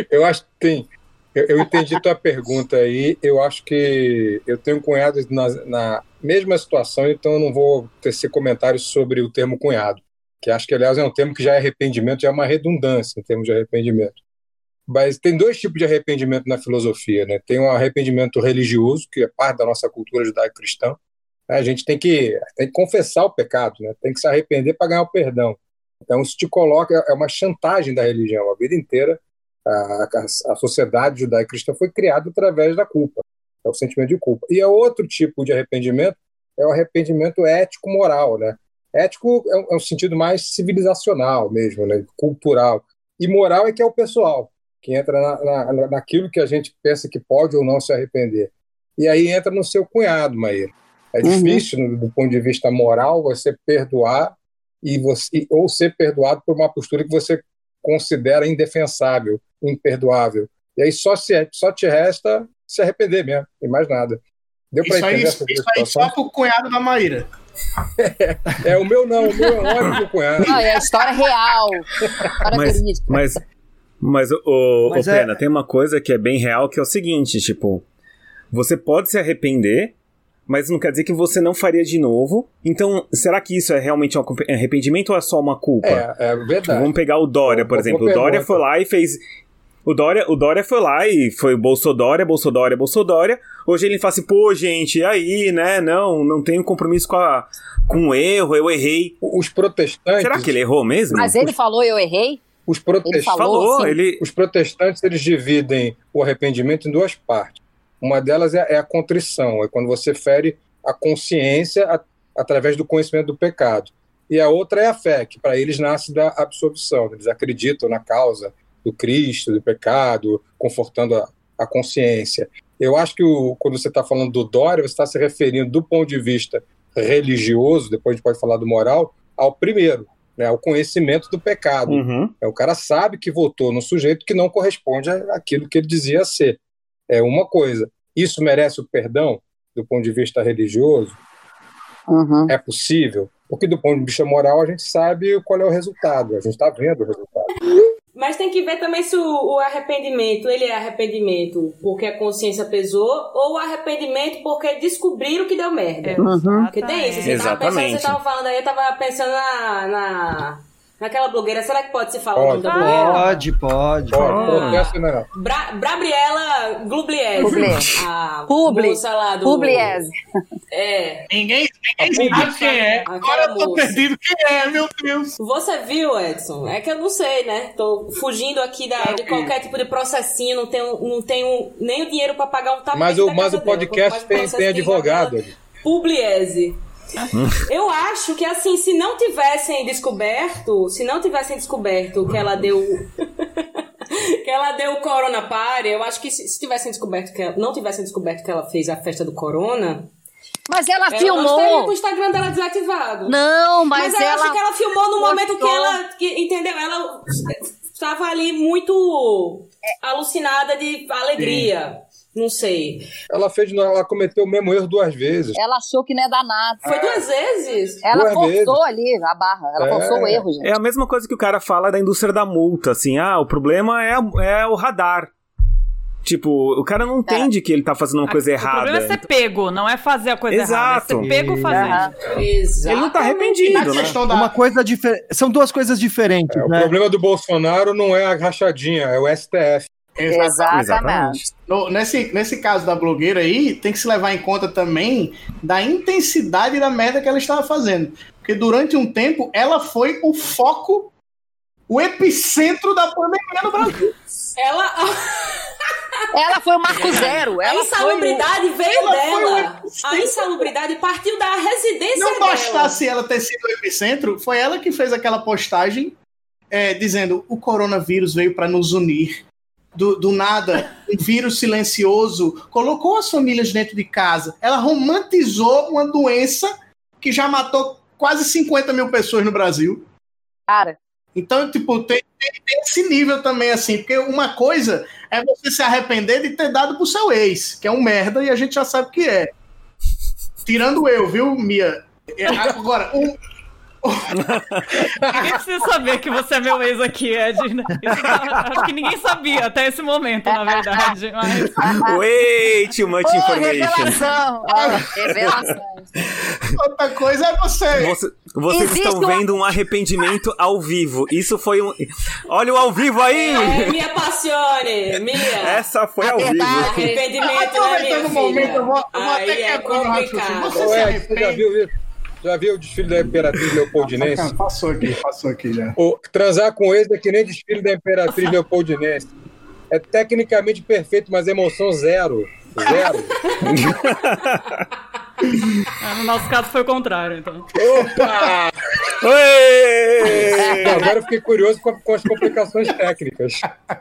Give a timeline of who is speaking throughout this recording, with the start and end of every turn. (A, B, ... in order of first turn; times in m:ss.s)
0:00.1-0:14.2 A
0:14.9-0:21.0 A
0:21.5-1:04.2 A
0:51.2-0:51.6 B
1:04.7-1:06.1 A
1:04.8-1:07.3 C
1:08.0-1:10.6 A
1:10.4-1:11.9 B
1:10.5-1:10.8 C
1:12.4-1:13.3 B
1:12.5-1:13.4 D
1:14.0-1:17.8 D
1:14.9-1:15.4 E
1:18.5-1:20.0 D
1:20.5-1:26.0 D
1:25.8-1:26.9 A
1:26.6-1:29.2 D
1:27.4-1:28.6 A
1:29.8-1:39.2 D
1:39.2-1:40.5 A
1:40.2-1:41.4 D
1:41.1-1:42.4 B
1:42.7-1:43.4 A
1:43.1-1:44.0 B
1:43.3-1:44.2 D
1:44.2-2:21.2 A
2:11.9-2:12.3 D
2:22.1-2:22.5 B
2:22.5-2:27.5 A
2:28.2-2:43.5 F
2:36.0-2:37.5 G
2:36.2-2:36.7 B
2:37.2-2:38.2 D
2:42.4-2:42.7 A
2:42.6-2:43.5 G
2:42.7-2:44.2 E
2:44.1-2:45.3 A
2:44.1-2:44.7 D
2:44.2-2:50.0 F
2:44.4-2:44.8 G
2:47.4-2:47.9 B
2:48.5-2:50.1 B
2:50.7-2:51.2 F
2:51.3-2:55.3 C
2:52.1-2:52.5 A
2:52.2-2:53.1 G
2:53.0-2:54.0 F
2:55.4-3:06.8 F
2:59.0-2:59.6 C
3:02.9-3:05.5 A
3:07.7-3:20.1 F
3:20.7-3:21.9 B
3:21.1-3:23.4 F
3:23.3-3:24.6 B
3:23.9-3:33.1 F
3:25.2-3:25.9 C
3:25.3-3:25.7 B
3:31.4-3:31.7 C
3:33.3-3:35.6 A
3:35.6-3:36.8 B
3:36.8-3:37.3 C
3:36.8-3:38.1 F
3:38.0-3:40.7 B
3:38.1-3:38.8 A
3:39.8-3:40.4 A
3:40.6-3:45.3 D
3:46.2-3:49.2 D
3:48.3-3:52.1 G
3:50.5-3:51.3 D
3:51.2-3:52.1 E
3:51.7-3:52.1 B
3:52.3-3:54.0 F
3:52.9-3:54.2 D
3:53.7-3:54.6 C
3:54.2-3:56.9 E
3:56.5-3:59.9 A
4:00.2-4:00.8 C
4:00.3-4:01.4 B
4:00.7-4:01.5 D
4:01.7-4:11.1 C
4:11.9-4:14.1 C
4:14.6-4:16.2 F
4:16.3-4:18.4 B
4:16.9-4:23.0 F
4:17.0-4:17.3 C
4:18.9-4:20.7 C
4:22.2-4:26.2 C
4:26.7-4:29.4 C
4:30.0-4:40.1 C
4:40.7-4:41.0 B
4:41.4-4:49.5 C
4:50.6-4:53.4 C
4:54.0-4:54.4 C
4:54.4-4:54.9 D
4:54.9-4:55.2 C
4:55.3-5:01.9 G
5:00.5-5:01.1 B
5:01.8-5:02.2 B
5:01.8-5:04.2 D
5:03.2-5:06.1 B
5:04.7-5:05.1 C
5:05.3-5:05.6 D
5:06.8-5:08.2 C
5:07.9-5:14.1 D
5:08.7-5:10.3 B
5:13.3-5:15.8 F
5:15.1-5:17.2 D
5:16.2-5:17.2 B
5:16.8-5:21.2 F
5:17.4-5:21.7 C
5:20.8-5:24.6 A
5:24.0-5:26.0 C
5:26.0-5:29.3 A
5:29.9-5:33.4 A
5:33.6-5:34.7 D
5:36.0-5:37.7 G
5:37.8-5:38.7 A
5:38.0-5:38.5 C
5:39.2-5:41.1 D
5:40.3-5:43.7 A